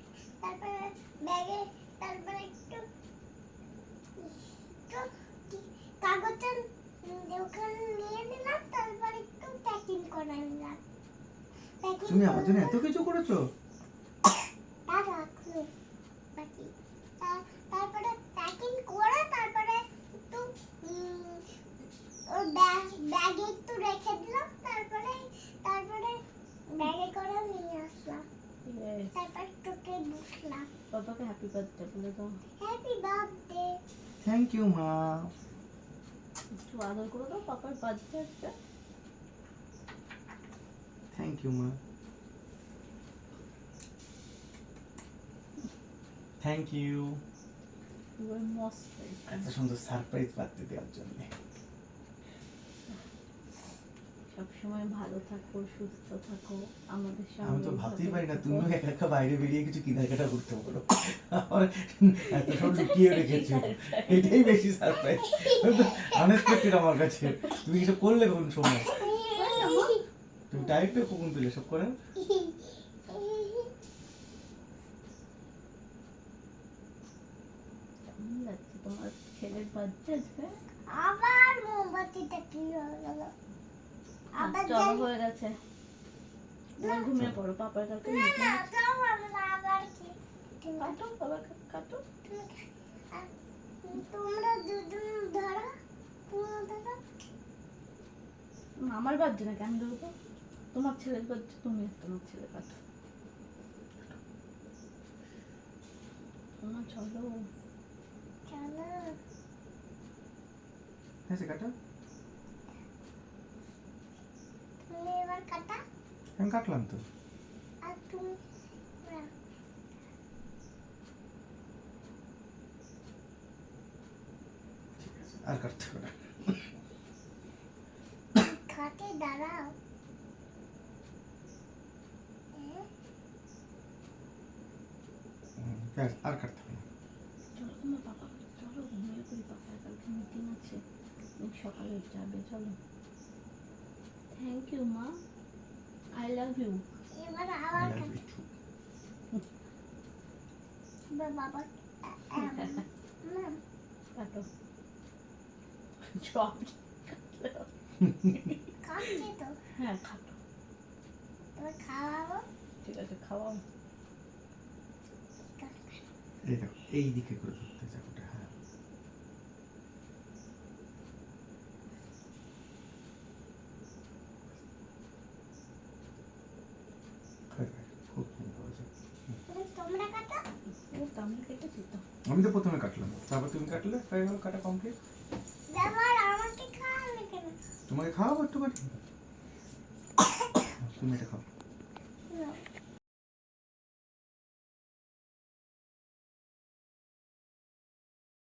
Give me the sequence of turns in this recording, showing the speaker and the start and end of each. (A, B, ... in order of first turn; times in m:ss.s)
0:00.4-0:02.8 A
0:04.2-0:10.8 A
0:11.8-0:12.8 A
0:12.0-0:13.5 B
0:14.9-0:15.7 A
0:16.4-0:21.4 A
0:22.3-0:28.2 A
0:28.6-0:29.1 C
0:29.1-0:30.7 A
0:30.9-0:32.4 C
0:32.6-0:33.8 A
0:34.2-0:35.3 B
0:36.6-0:38.5 C
0:41.1-0:41.8 B
0:46.4-0:47.2 B
0:48.2-0:49.5 C
0:49.3-0:51.3 B
0:54.3-0:58.7 C
0:57.4-1:08.9 B
1:02.4-1:04.6 C
1:05.1-1:06.7 A
1:08.8-1:10.0 A
1:09.3-1:09.9 C
1:10.5-1:11.9 B
1:12.2-1:13.7 A
1:18.1-1:20.6 C
1:20.9-1:23.3 A
1:24.3-1:25.0 A
1:24.4-1:25.6 C
1:26.8-1:28.7 C
1:26.8-1:27.1 A
1:28.0-1:31.0 A
1:30.8-1:32.0 C
1:32.2-1:32.5 A
1:33.8-1:35.7 A
1:36.3-1:37.0 A
1:38.8-1:40.1 C
1:40.7-1:42.8 C
1:46.6-1:47.5 C
1:48.5-1:49.2 A
1:51.3-1:51.7 B
1:54.8-1:55.8 A
1:56.4-1:57.0 B
1:57.8-1:58.4 A
1:59.0-1:59.3 A
2:05.0-2:06.6 B
2:08.4-2:09.7 A
2:12.5-2:12.8 A
2:15.6-2:16.8 B
2:17.6-2:20.8 C
2:21.4-2:22.8 C
2:24.3-2:25.2 C
2:26.1-2:26.8 C
2:27.1-2:28.2 A
2:27.7-2:28.5 B
2:31.1-2:33.6 A
2:32.4-2:32.8 C
2:34.1-2:34.5 C
2:36.1-2:37.7 C
2:38.3-2:38.6 C
2:38.8-2:39.6 A
2:39.8-2:40.4 C
2:41.6-2:42.4 A
2:42.8-2:43.6 C
2:45.5-2:46.0 A
2:46.4-2:48.5 B
2:57.5-2:59.3 B
2:59.5-3:00.4 A
3:00.9-3:02.0 C
3:02.3-3:05.0 B
3:05.7-3:07.6 A
3:07.9-3:08.9 B
3:10.8-3:11.4 B
3:12.3-3:12.6 A